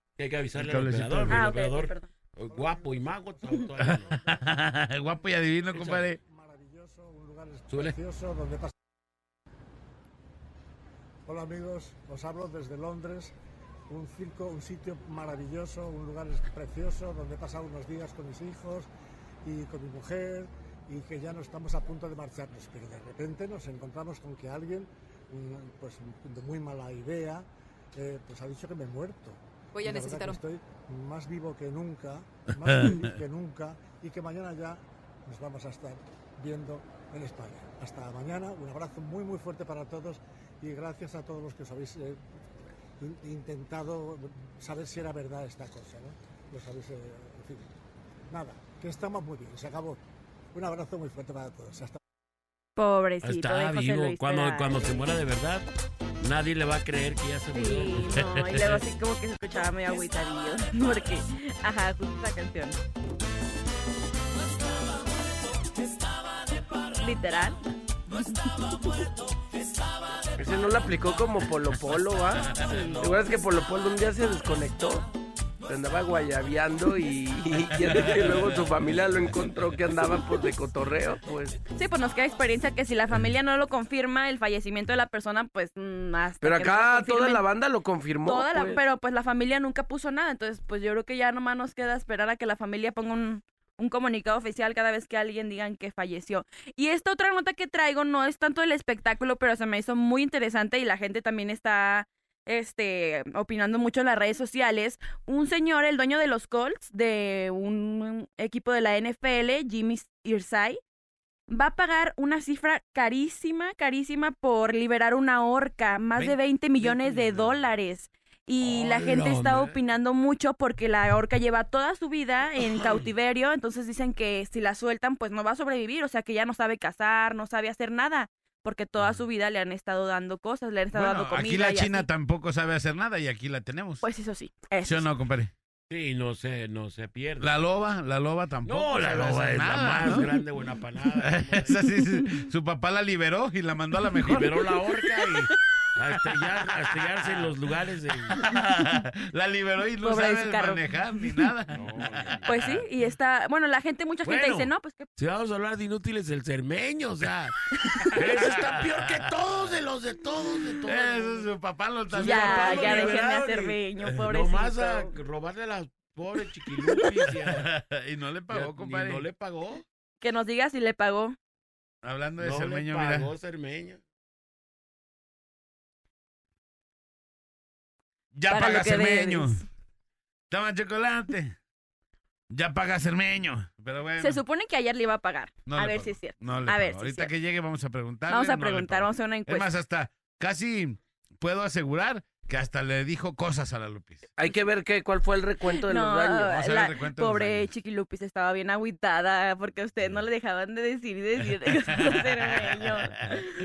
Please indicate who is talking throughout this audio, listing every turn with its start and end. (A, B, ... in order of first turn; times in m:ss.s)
0:00.2-0:04.2 A
0:00.6-0:01.4 B
0:01.3-0:02.1 C
0:02.5-0:04.4 D
0:03.8-0:06.2 B
0:05.7-0:06.1 A
0:06.2-0:08.7 D
0:07.7-0:07.9 A
0:11.2-0:13.3 D
0:13.9-0:18.9 D
0:19.4-0:42.4 D
0:32.6-0:33.1 B
0:43.0-0:47.7 D
0:48.3-0:50.0 D
0:50.5-0:52.0 D
0:52.8-0:54.9 C
0:53.2-0:55.6 A
0:56.2-0:58.8 A
0:57.5-1:02.8 C
1:07.0-1:07.6 C
1:10.4-1:15.0 E
1:12.7-1:13.0 C
1:15.7-1:21.6 E
1:17.8-1:18.6 B
1:21.7-1:27.4 C
1:26.4-1:28.8 E
1:28.2-1:50.8 C
1:51.5-2:12.0 C
1:56.8-1:57.2 A
1:58.6-1:59.8 A
2:02.6-2:03.0 A
2:10.9-2:14.0 B
2:14.0-2:15.0 C
2:14.8-2:15.5 B
2:15.9-2:17.5 A
2:17.4-2:20.3 B
2:18.6-2:21.8 A
2:21.2-2:24.6 B
2:24.2-2:28.3 A
2:27.0-2:27.4 B
2:28.3-2:32.8 B
2:30.0-2:30.8 C
2:31.7-2:32.4 A
2:32.4-2:35.1 C
2:34.2-2:37.5 A
2:38.1-2:39.1 B
2:38.2-2:41.5 A
2:40.8-2:43.3 B
2:42.1-2:47.7 A
2:42.2-2:45.1 C
2:47.5-2:49.3 B
2:48.5-2:49.8 A
2:50.2-2:51.4 C
2:52.0-2:53.3 B
2:52.4-2:54.0 A
2:58.3-2:59.6 B
2:58.5-2:59.6 C
3:00.5-3:01.6 B
3:02.5-3:04.4 B
3:04.2-3:07.3 C
3:05.6-3:14.3 B
3:08.3-3:09.7 C
3:14.4-3:16.5 E
3:15.9-3:23.4 C
3:16.5-3:17.7 B
3:21.9-3:23.4 B